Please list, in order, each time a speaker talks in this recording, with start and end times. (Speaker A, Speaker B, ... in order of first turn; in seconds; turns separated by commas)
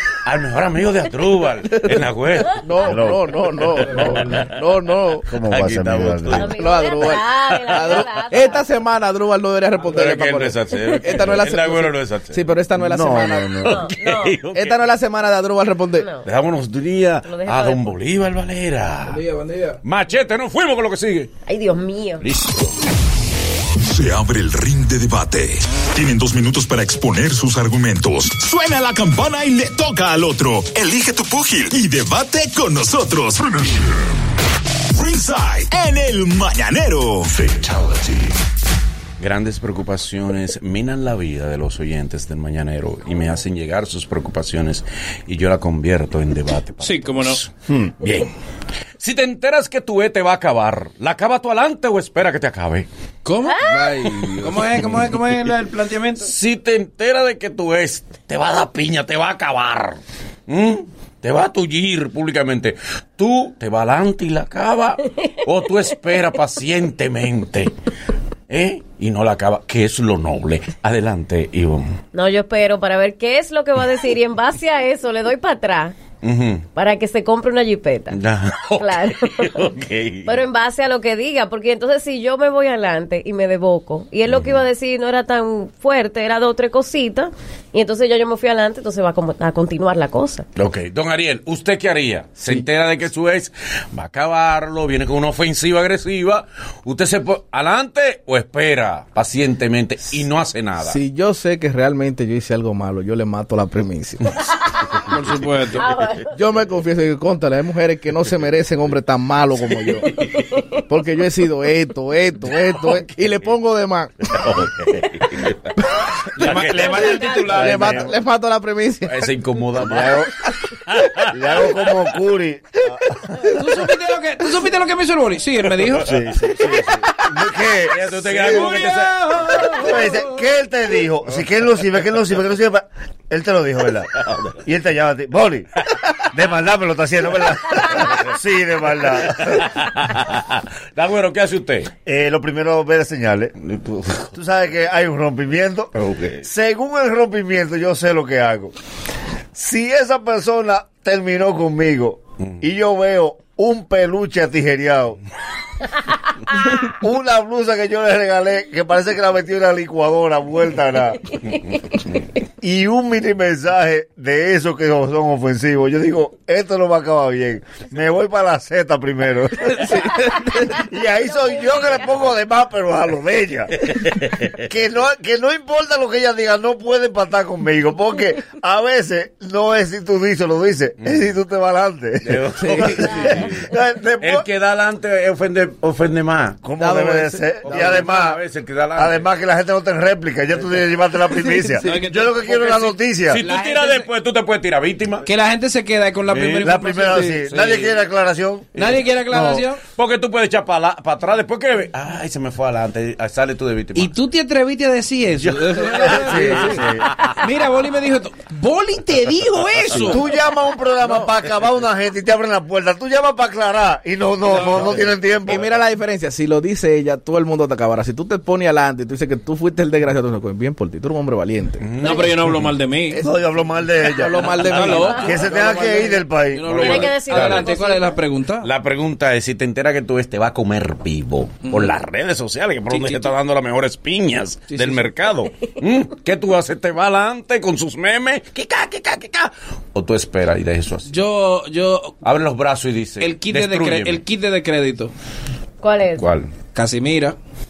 Speaker A: 0.2-2.9, Speaker B: 1.7-2.0, Speaker B: 2.6-5.3, Speaker C: 2.8-3.2, Speaker A: 3.9-4.5, Speaker C: 5.3-6.5, Speaker A: 5.4-8.0, Speaker D: 6.3-8.7, Speaker B: 6.6-13.6, Speaker A: 9.8-12.4, Speaker C: 12.8-13.8, Speaker A: 13.6-14.8, Speaker D: 13.7-14.4, Speaker B: 14.5-16.1, Speaker D: 16.0-16.3, Speaker A: 16.2-19.2, Speaker D: 17.2-18.0, Speaker E: 19.1-19.8, Speaker A: 19.8-21.3, Speaker D: 21.5-22.2, Speaker A: 22.2-22.7, Speaker F: 23.9-33.7, Speaker F: 35.0-37.6, Speaker A: 39.2-48.3, Speaker E: 46.8-47.4, Speaker A: 49.0-52.9, Speaker E: 53.2-53.6, Speaker D: 53.5-53.9, Speaker B: 53.7-54.6, Speaker E: 54.4-56.3, Speaker A: 56.2-67.7, Speaker A: 68.5-72.0, Speaker D: 72.1-76.0, Speaker A: 76.2-76.7, Speaker D: 76.8-78.2, Speaker A: 78.1-80.5, Speaker D: 78.8-79.6, Speaker D: 80.3-90.5, Speaker A: 84.3-84.7, Speaker A: 90.6-101.0, Speaker B: 100.8-104.2, Speaker E: 105.1-105.9, Speaker D: 105.8-106.4, Speaker B: 106.4-110.1, Speaker B: 110.9-114.1, Speaker A: 112.8-113.5, Speaker A: 114.3-115.6, Speaker E: 116.4-118.1, Speaker A: 116.4-118.1, Speaker D: 116.8-117.6, Speaker B: 117.5-119.2, Speaker A: 119.0-120.2, Speaker C: 119.8-120.3, Speaker A: 120.9-121.9, Speaker C: 121.3-123.3, Speaker E: 123.6-126.1, Speaker A: 125.8-127.0, Speaker C: 126.0-128.8, Speaker A: 127.9-129.2, Speaker E: 128.6-130.2, Speaker C: 129.7-134.1, Speaker C: 134.6-135.7, Speaker C: 136.3-139.7, Speaker A: 137.8-138.4, Speaker A: 139.0-141.9, Speaker C: 142.1-143.5, Speaker A: 143.6-144.3, Speaker C: 144.3-145.9, Speaker A: 145.9-146.4, Speaker C: 146.4-148.7, Speaker C: 149.5-155.2, Speaker C: 157.0-161.3, Speaker C: 162.6-169.9, Speaker B: 169.7-170.5, Speaker D: 170.2-172.2, Speaker C: 170.7-174.0, Speaker C: 174.7-184.4, Speaker A: 181.0-181.3, Speaker A: 182.2-183.7, Speaker A: 184.2-186.6, Speaker C: 186.6-188.4, Speaker B: 186.8-188.0, Speaker A: 187.6-189.3, Speaker C: 189.0-193.4, Speaker E: 191.8-194.1, Speaker A: 193.3-195.2, Speaker E: 195.2-197.4, Speaker A: 196.3-196.7, Speaker C: 196.6-198.8, Speaker A: 197.4-198.0, Speaker E: 198.8-199.8, Speaker C: 199.3-199.6, Speaker A: 200.0-204.1, Speaker E: 203.9-206.8, Speaker A: 205.4-206.8, Speaker C: 206.0-207.1, Speaker E: 207.4-210.2, Speaker C: 210.1-215.7, Speaker E: 214.4-215.1, Speaker B: 215.4-221.9, Speaker A: 221.8-222.7, Speaker E: 222.0-223.2, Speaker B: 223.1-223.4, Speaker C: 223.2-226.8, Speaker B: 224.0-226.2, Speaker E: 224.7-225.4, Speaker D: 225.0-225.3, Speaker E: 226.5-228.7, Speaker A: 226.7-227.8, Speaker D: 226.8-228.1, Speaker A: 228.6-241.2, Speaker E: 231.6-231.9, Speaker E: 232.9-233.3, Speaker E: 234.7-235.0, Speaker E: 241.1-242.2, Speaker A: 242.2-244.2, Speaker E: 243.2-245.1, Speaker D: 245.8-246.3, Speaker A: 246.2-246.5, Speaker E: 246.8-247.4